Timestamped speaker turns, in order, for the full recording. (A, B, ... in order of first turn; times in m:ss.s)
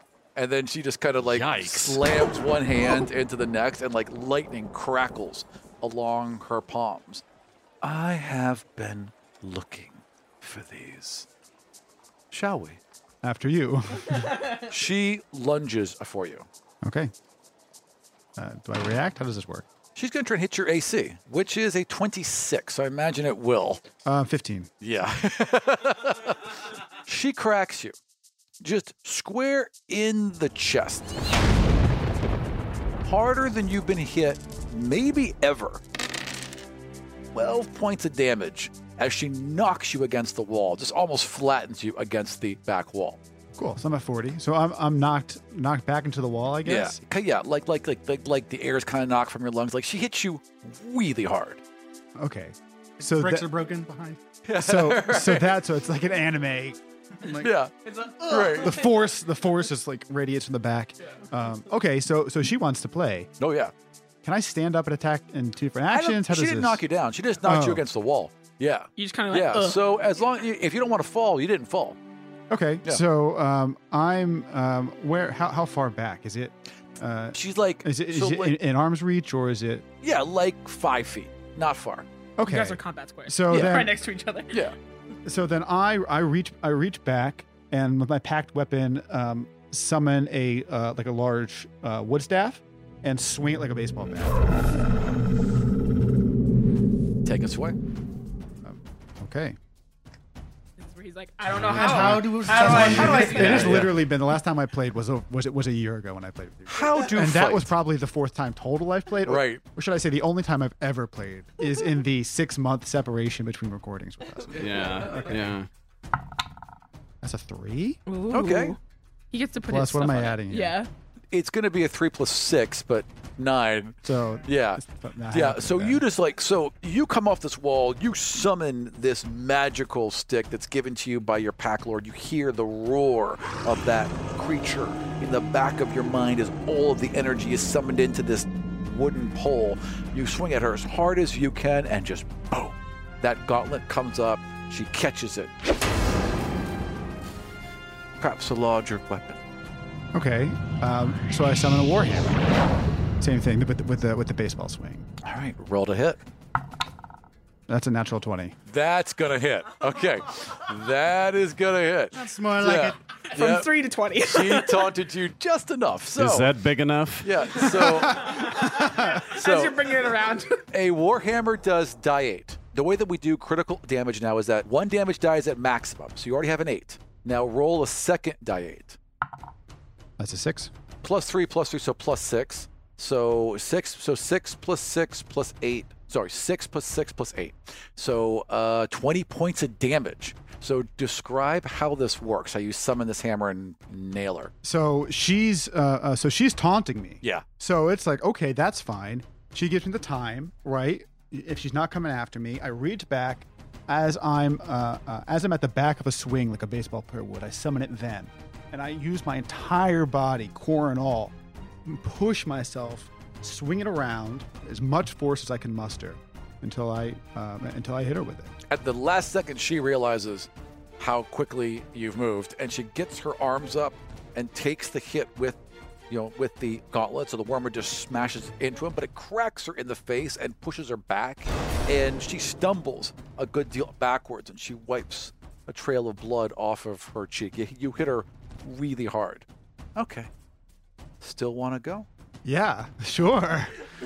0:00.4-0:07.2 A
0:01.3-0:02.0 B
0:07.8-0:11.3 A
0:12.3-0:12.8 A
0:13.2-0:14.3 C
0:14.7-0:16.5 A
0:16.8-0:17.1 C
0:18.4-0:19.6 C
0:19.9-0:23.8 A
0:24.0-0:24.7 C
0:24.8-0:26.5 A
0:27.0-0:27.9 A
0:28.6-0:31.1 A
0:33.0-0:35.8 A
0:37.3-0:43.2 A
0:43.6-0:47.0 C
0:46.6-0:51.6 A
0:52.2-0:53.5 C
0:53.0-0:54.2 D
0:54.4-0:55.6 A
0:54.6-0:57.5 C
0:57.3-0:57.7 A
0:57.8-0:58.9 E
0:58.3-0:58.8 A
0:58.6-1:03.3 C
1:03.4-1:03.7 A
1:04.2-1:06.8 C
1:05.9-1:12.0 A
1:07.4-1:07.8 C
1:09.0-1:09.8 E
1:12.5-1:19.8 C
1:17.3-1:18.6 A
1:20.0-1:22.0 A
1:22.4-1:23.9 C
1:22.4-1:24.6 E
1:23.5-1:23.8 A
1:25.2-1:34.4 C
1:37.2-1:37.8 A
1:38.6-1:39.6 C
1:40.8-1:43.9 E
1:41.7-1:43.9 D
1:41.7-1:55.6 C
1:43.5-1:43.8 A
1:46.7-1:47.7 A
1:49.2-1:49.6 A
1:54.6-1:55.7 B
1:57.2-1:58.0 C
1:58.1-1:58.8 E
1:58.3-1:58.8 A
1:59.3-2:00.9 E
1:59.7-2:00.8 C
2:01.3-2:25.5 A
2:04.0-2:06.0 C
2:28.2-2:29.4 A
2:30.1-2:32.4 C
2:33.2-2:35.1 C
2:35.2-2:36.2 A
2:37.7-2:38.5 C
2:38.7-2:46.5 A
2:42.1-2:43.0 D
2:43.3-2:44.9 E
2:46.2-2:48.0 B
2:47.2-2:49.9 A
2:48.2-2:50.6 E
2:50.7-2:59.0 A
3:00.2-3:00.7 C
3:01.0-3:14.5 A
3:14.6-3:31.3 C
3:31.8-3:38.5 C
3:38.7-3:45.6 A
3:46.1-4:00.3 A
4:01.2-4:02.1 A
4:02.4-4:03.8 C